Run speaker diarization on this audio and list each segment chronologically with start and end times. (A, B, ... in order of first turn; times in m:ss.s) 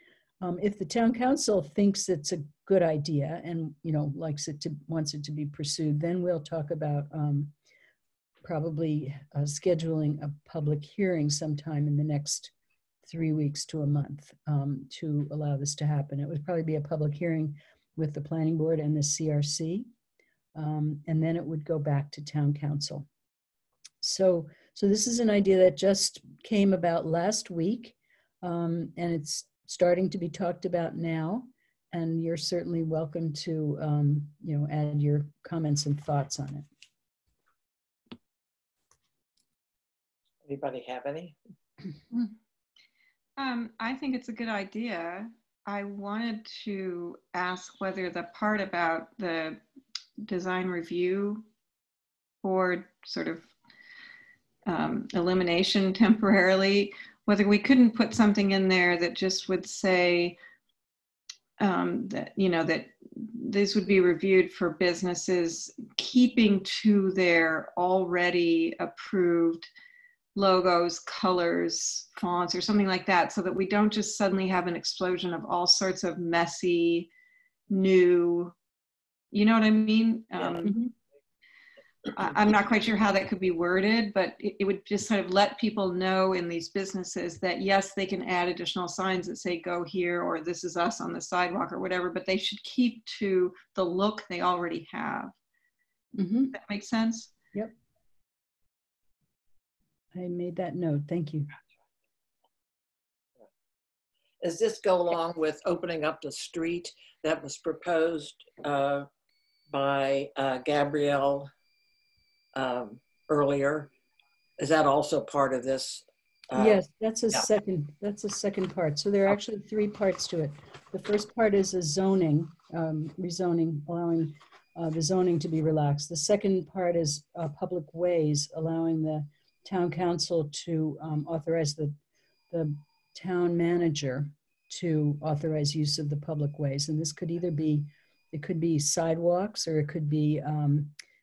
0:00.4-0:07.5 A
0:08.4-0:12.5 A
0:13.0-0:19.9 A
0:20.5-0:23.1 A
0:24.0-0:36.7 A
0:40.4-0:41.4 B
0:43.4-0:49.6 C
0:50.2-0:51.4 C
0:52.4-0:53.5 C
0:54.6-1:00.4 C
1:01.6-1:09.7 C
1:10.3-1:17.1 C
1:17.7-1:18.5 C
1:19.3-1:20.9 C
1:22.1-1:35.3 C
1:36.1-1:36.6 A
1:36.5-1:37.3 C
1:40.1-1:41.5 A
1:44.4-1:49.1 B
1:49.7-1:51.5 B
1:52.6-1:53.9 B
1:54.6-1:56.8 B
1:56.6-2:12.0 A
2:12.5-2:20.9 A